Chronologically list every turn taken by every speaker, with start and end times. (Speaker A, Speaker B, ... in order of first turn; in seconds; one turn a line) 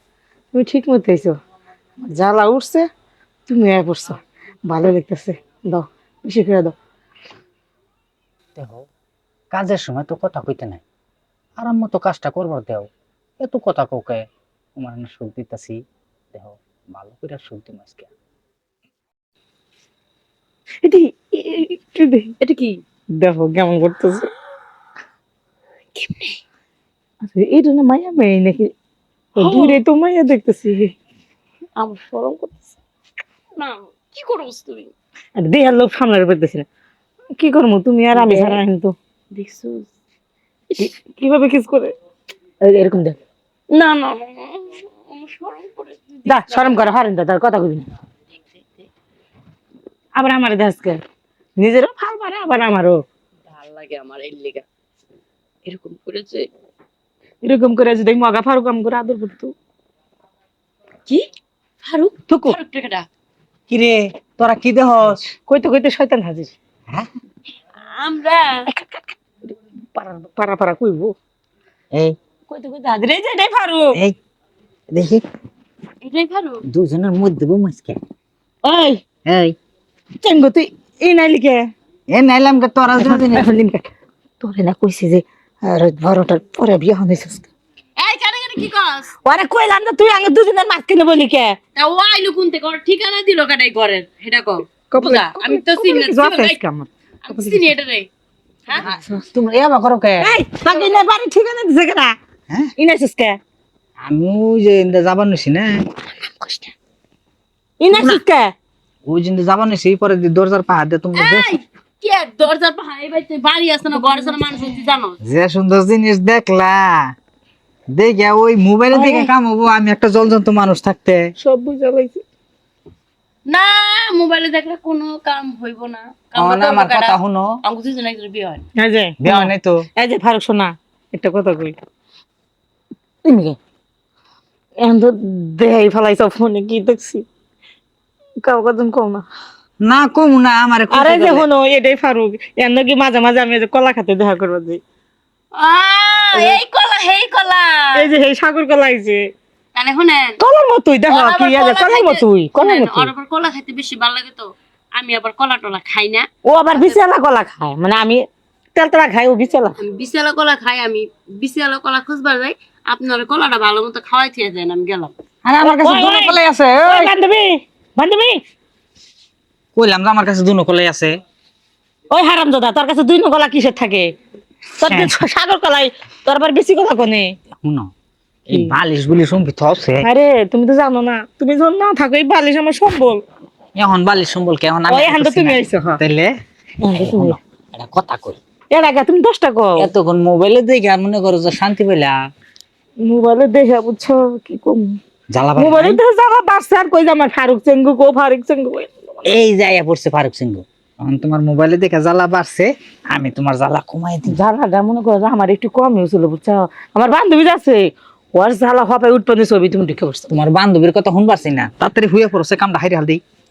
Speaker A: 0.5-1.3
Speaker A: 2.0-2.9
Speaker A: 3.5-6.7
Speaker B: 8.6-8.9
Speaker B: 9.5-10.8
Speaker B: 11.6-12.9
Speaker B: 13.4-14.2
Speaker B: 14.8-15.8
Speaker B: 16.3-18.1
Speaker A: 20.8-22.3
Speaker C: 22.4-22.8
Speaker A: 23.2-24.3
Speaker C: 25.9-26.4
Speaker A: 27.2-28.7
Speaker A: 29.4-30.9
Speaker C: 29.4-29.8
Speaker C: 31.8-32.7
Speaker C: 33.5-34.9
Speaker A: 35.4-36.7
Speaker A: 37.4-38.9
Speaker C: 38.1-38.6
Speaker C: 39.3-39.9
Speaker A: 40.8-41.9
Speaker A: 42.6-43.2
Speaker C: 43.7-46.9
Speaker A: 46.3-47.9
Speaker C: 48.4-48.9
Speaker A: 50.2-51.0
Speaker A: 51.6-53.0
Speaker C: 53.5-54.6
Speaker C: 55.6-56.5
Speaker A: 57.4-59.5
Speaker C: 61.8-63.1
Speaker A: 62.3-62.6
Speaker B: 63.7-65.2
Speaker A: 65.5-66.5
Speaker C: 67.9-68.7
Speaker A: 68.7-71.1
Speaker A: 72.5-74.0
Speaker B: 74.9-75.2
Speaker C: 76.0-76.6
Speaker B: 76.7-78.0
Speaker A: 78.6-79.0
Speaker B: 79.3-79.6
Speaker A: 80.2-81.7
Speaker B: 82.1-83.5
Speaker A: 83.0-83.9
Speaker A: 84.4-87.5
Speaker C: 88.0-89.1
Speaker A: 89.2-91.6
Speaker C: 91.8-96.6
Speaker A: 94.9-97.7
Speaker C: 97.2-98.1
Speaker A: 98.7-99.2
Speaker B: 98.8-100.3
Speaker A: 100.2-102.2
Speaker A: 102.8-103.4
Speaker B: 104.0-105.8
Speaker A: 106.2-106.7
Speaker A: 107.8-108.5
Speaker B: 107.9-108.2
Speaker B: 109.1-111.5
Speaker C: 111.2-115.2
Speaker A: 113.9-114.7
Speaker B: 115.2-117.1
Speaker B: 117.9-121.3
Speaker A: 118.9-119.3
Speaker A: 121.4-122.2
Speaker C: 123.5-128.6
Speaker B: 126.4-127.6
Speaker A: 128.8-131.8
Speaker B: 129.2-129.8
Speaker A: 133.2-133.6
Speaker A: 134.8-137.2
Speaker A: 138.4-139.2
Speaker B: 139.8-141.5
Speaker A: 140.9-144.8
Speaker C: 145.6-148.1
Speaker A: 146.3-146.6
Speaker A: 148.0-149.2
Speaker C: 149.8-150.4
Speaker A: 150.4-153.1
Speaker C: 151.1-157.0
Speaker A: 156.5-158.2
Speaker A: 158.8-159.8
Speaker C: 159.8-165.1
Speaker B: 165.4-167.1
Speaker A: 165.6-168.4
Speaker B: 169.8-171.2
Speaker A: 172.1-174.1
Speaker A: 174.8-177.3
Speaker B: 174.9-175.1
Speaker B: 177.6-177.9
Speaker B: 178.5-180.1
Speaker A: 178.5-178.8
Speaker A: 180.0-183.2
Speaker B: 183.8-186.3
Speaker A: 184.9-186.0
Speaker A: 186.8-187.4
Speaker B: 186.9-188.4
Speaker A: 188.7-189.9
Speaker B: 189.8-192.2
Speaker A: 193.1-195.0
Speaker B: 195.3-196.0
Speaker A: 195.6-199.3
Speaker B: 199.3-204.4
Speaker A: 204.3-210.3
Speaker B: 210.3-213.2